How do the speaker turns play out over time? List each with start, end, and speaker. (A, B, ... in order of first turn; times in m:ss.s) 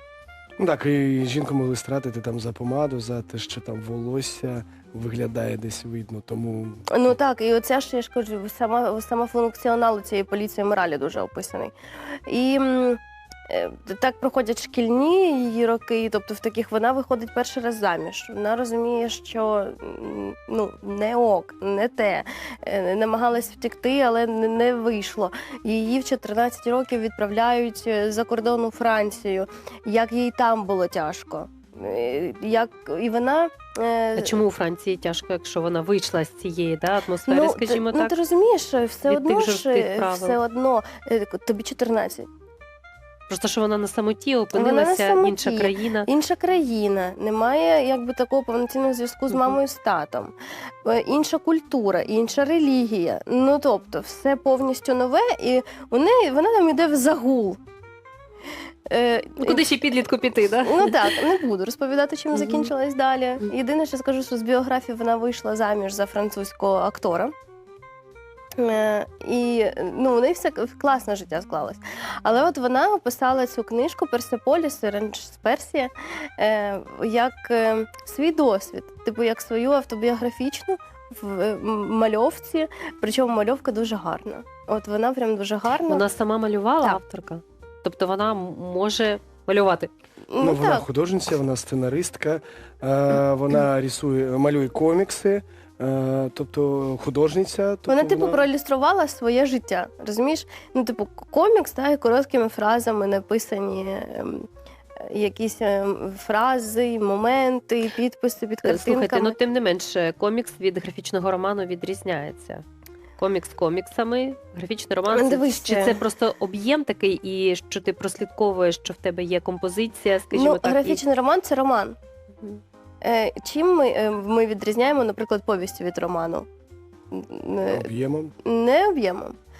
0:00.6-0:06.9 A
0:06.9-0:34.4 B
0:34.2-0:38.1 C
0:37.3-0:42.3 B
0:39.1-0:40.4 C
0:43.3-0:46.1 C
0:44.5-0:57.6 B
0:58.9-0:59.7 B
0:59.4-1:01.2 C
1:00.6-1:07.3 B
1:02.3-1:02.7 C
1:08.6-1:26.0 B
1:25.9-1:29.9 C
1:30.3-1:30.8 B
1:30.4-1:38.5 A
1:37.9-1:44.5 B
1:45.0-1:49.4 B
1:48.6-1:52.6 C
1:53.2-2:01.0 C
1:55.1-1:56.0 B
2:00.3-2:02.0 B
2:03.0-2:06.5 B
2:07.1-2:07.9 B
2:07.7-2:08.3 A
2:08.4-2:09.4 B